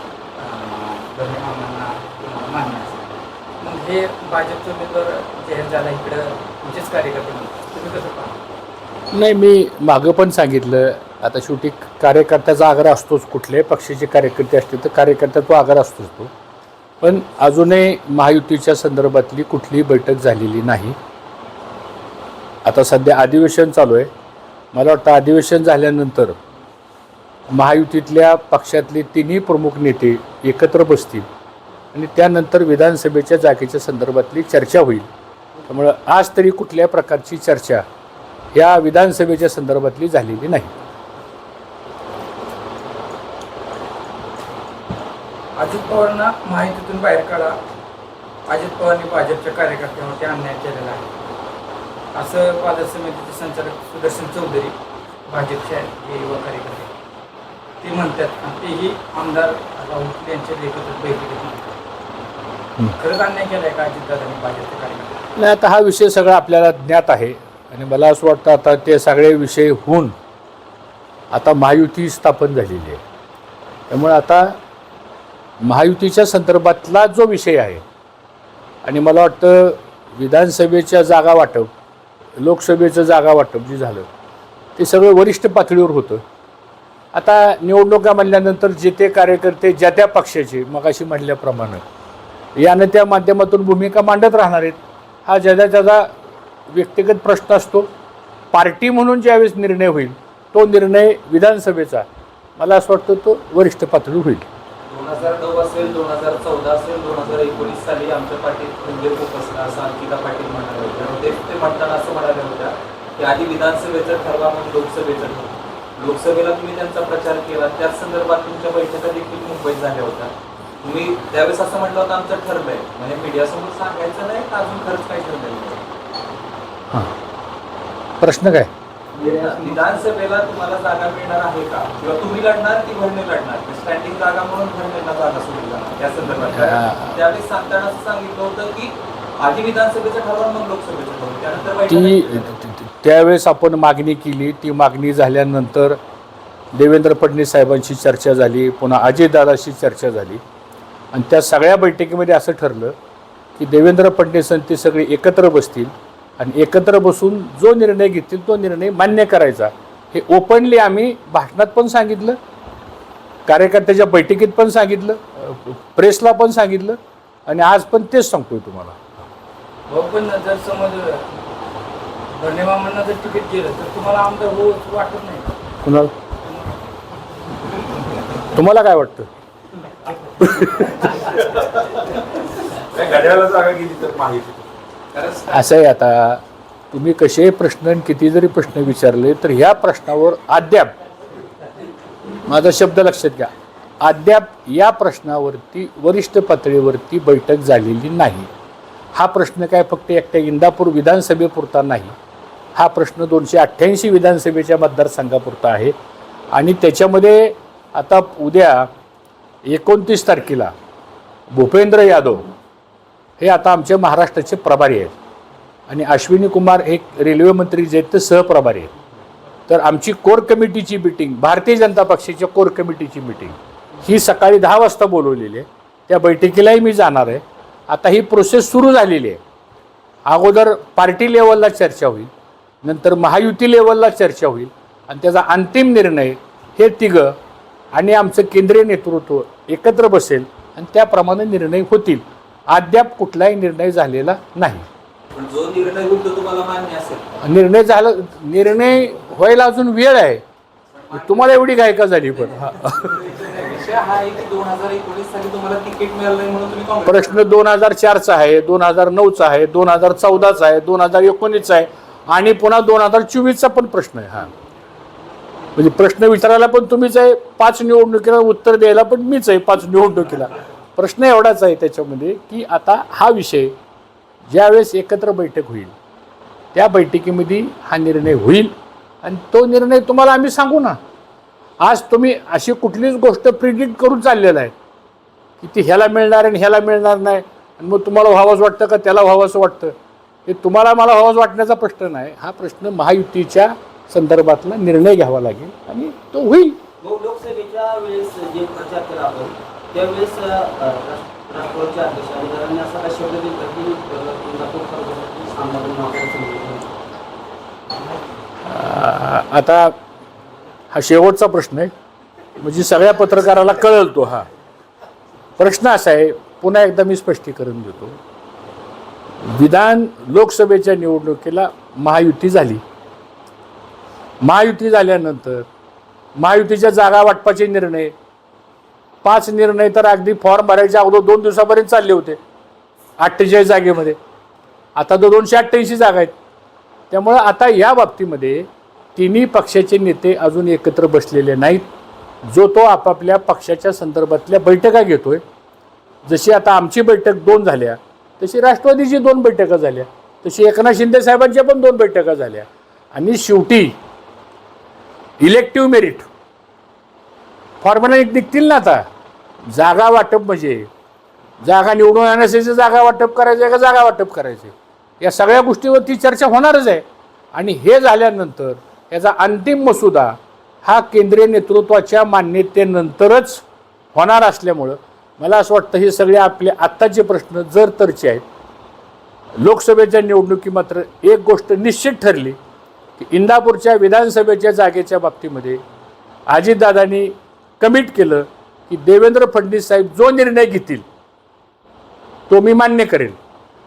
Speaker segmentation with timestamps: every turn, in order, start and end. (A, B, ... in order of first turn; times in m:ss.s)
0:00.4-0:08.4 A
0:09.1-0:16.3 B
0:17.0-0:21.0 B
0:22.6-0:24.1 B
0:24.7-0:26.4 B
0:27.5-0:31.3 B
0:31.9-0:35.1 B
0:35.7-0:37.8 B
0:38.5-0:40.7 B
0:45.5-0:47.6 A
0:48.5-0:51.1 A
0:52.1-0:54.7 A
0:55.3-0:56.9 A
0:57.8-1:01.8 A
1:02.9-1:05.2 A
1:05.4-1:10.1 B
1:11.3-1:13.0 B
1:13.9-1:14.6 B
1:15.6-1:17.8 B
1:18.8-1:21.7 B
1:22.4-1:24.1 B
1:24.8-1:26.2 B
1:27.1-1:31.8 B
1:32.6-1:36.1 B
1:36.7-1:37.9 B
1:38.5-1:42.0 B
1:42.6-1:44.4 B
1:44.9-2:05.8 C
2:08.2-2:08.7 B
2:09.1-2:22.6 C
2:16.5-2:17.2 B
2:21.9-2:26.0 B
2:26.7-2:30.4 B
2:31.1-2:33.0 B
2:33.6-2:42.4 B
2:43.4-2:49.0 B
2:49.9-2:51.2 A
2:52.4-2:55.6 A
2:55.8-2:56.1 B
2:56.4-2:56.7 A
2:58.5-2:59.3 B
3:00.4-3:01.0 B
3:01.1-3:02.1 C
3:02.8-3:05.5 C
3:05.5-3:06.4 B
3:06.9-3:10.9 B
3:12.4-3:13.5 B
3:14.0-3:18.5 B
3:19.1-3:22.1 B
3:22.8-3:25.9 B
3:26.5-3:28.9 B
3:29.6-3:30.7 B
3:31.5-3:32.5 B
3:33.4-3:35.1 B
3:35.9-3:38.9 B
3:39.7-3:49.4 B
3:50.3-3:52.3 B
3:52.8-3:57.4 B
3:57.9-4:04.8 B
4:05.3-4:07.3 C
4:07.4-4:10.4 B
4:10.9-4:17.5 C
4:11.1-4:13.1 B
4:17.0-4:24.5 B
4:25.7-4:33.7 B
4:34.5-4:35.9 B
4:36.7-4:41.0 B
4:41.8-4:44.7 B
4:45.6-4:49.9 B
4:50.4-4:56.8 B
4:57.0-5:06.9 D
5:08.7-5:09.9 B
5:10.9-5:11.9 B
5:12.6-5:14.5 B
5:15.6-5:18.2 B
5:19.4-5:22.8 B
5:24.4-5:25.6 B
5:26.4-5:28.1 B
5:29.2-5:32.4 B
5:33.2-5:34.2 B
5:35.0-5:36.3 B
5:37.1-5:41.8 B
5:42.4-5:45.4 B
5:46.2-5:54.0 B
5:55.4-5:56.3 B
5:57.8-5:59.0 B
5:59.7-6:00.9 B
6:01.6-6:18.4 B
6:19.6-6:22.6 B
6:23.2-6:25.8 B
6:26.5-6:31.0 B
6:32.5-6:33.4 B